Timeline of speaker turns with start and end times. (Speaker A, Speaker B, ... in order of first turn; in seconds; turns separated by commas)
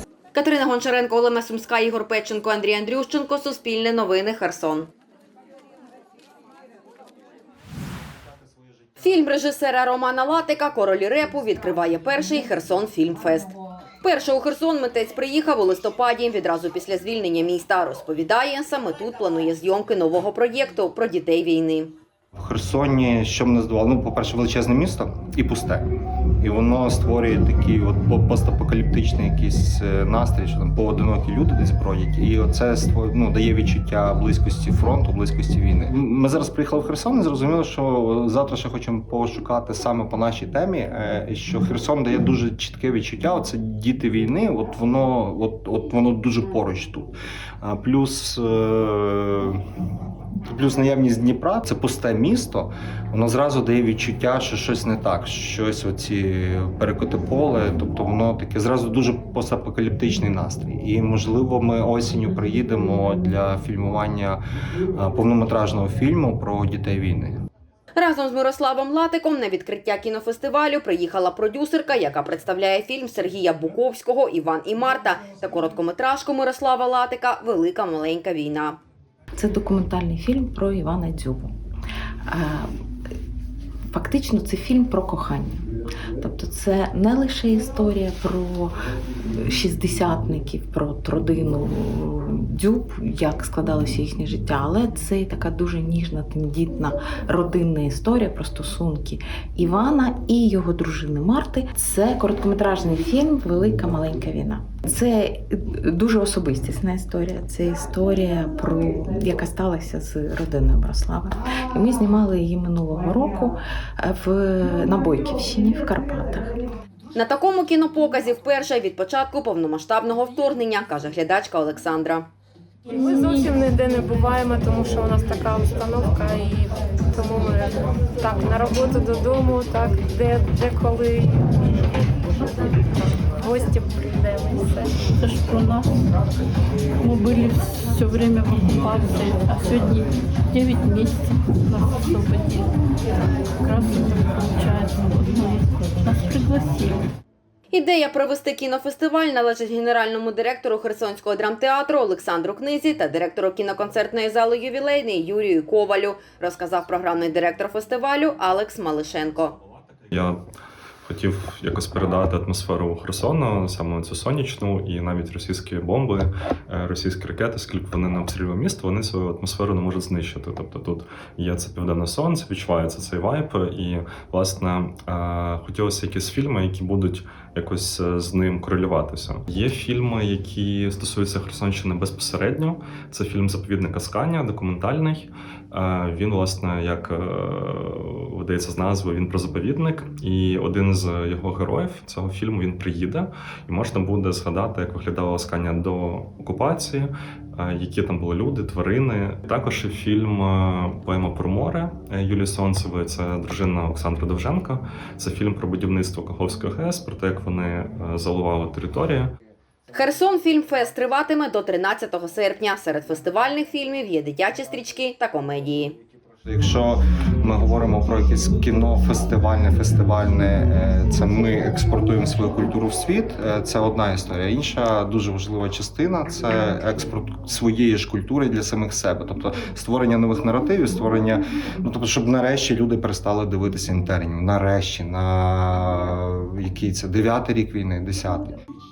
Speaker A: 0.3-4.9, Speaker A: 9.0-22.0, Speaker B: 22.4-25.9, Speaker B: 26.4-49.6, Speaker B: 50.5-64.4, Speaker B: 65.0-67.4, Speaker A: 68.0-78.8, Speaker C: 79.4-81.5, Speaker C: 82.3-82.7, Speaker C: 83.9-85.7, Speaker C: 86.2-88.8, Speaker C: 89.3-116.5, Speaker A: 117.1-122.3, Speaker D: 122.9-134.9, Speaker E: 135.1-136.0, Speaker E: 137.0-142.7, Speaker E: 143.6-147.1, Speaker A: 147.7-159.6, Speaker F: 160.1-160.4, Speaker F: 161.1-209.3, Speaker A: 209.9-216.0, Speaker B: 216.5-238.5